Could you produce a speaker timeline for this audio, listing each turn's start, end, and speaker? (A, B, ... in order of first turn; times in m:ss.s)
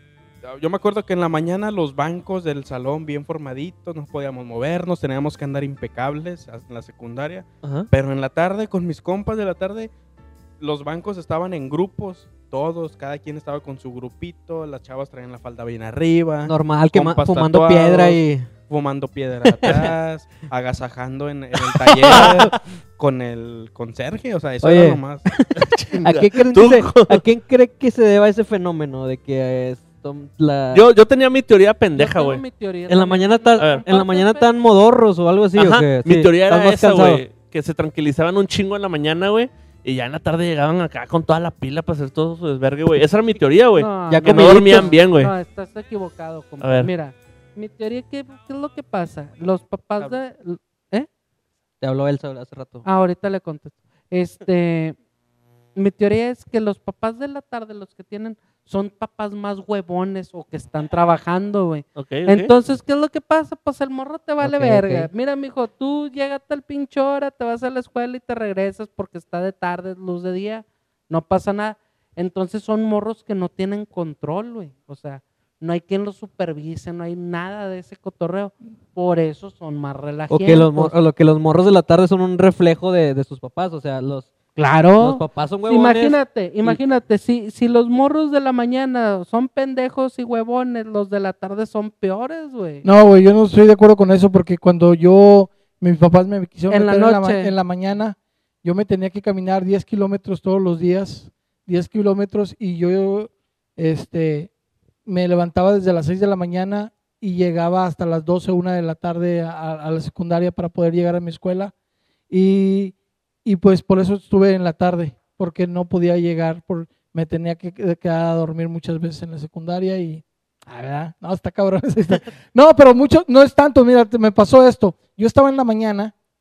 0:00.4-0:09.9 A
0:07.6-0:07.9 B
0:10.6-0:25.2 A
0:16.5-0:18.5 C
0:19.5-0:19.9 C
0:21.6-0:22.5 C
0:22.1-0:22.4 B
0:24.6-0:30.9 C
0:25.6-0:27.2 B
0:30.7-0:32.4 B
0:32.0-0:34.5 D
0:32.9-0:37.2 C
0:33.6-0:33.8 B
0:35.6-0:45.3 B
0:43.8-0:51.1 D
0:44.1-0:44.9 C
0:46.6-0:46.9 B
0:51.8-0:52.8 C
0:52.8-0:55.0 D
0:55.8-1:20.9 D
1:02.0-1:02.5 B
1:04.4-1:05.1 C
1:20.3-1:24.3 C
1:24.6-1:32.9 D
1:25.0-1:26.8 C
1:32.8-1:44.5 E
1:36.7-1:37.5 D
1:45.1-1:51.7 E
1:52.3-2:06.1 E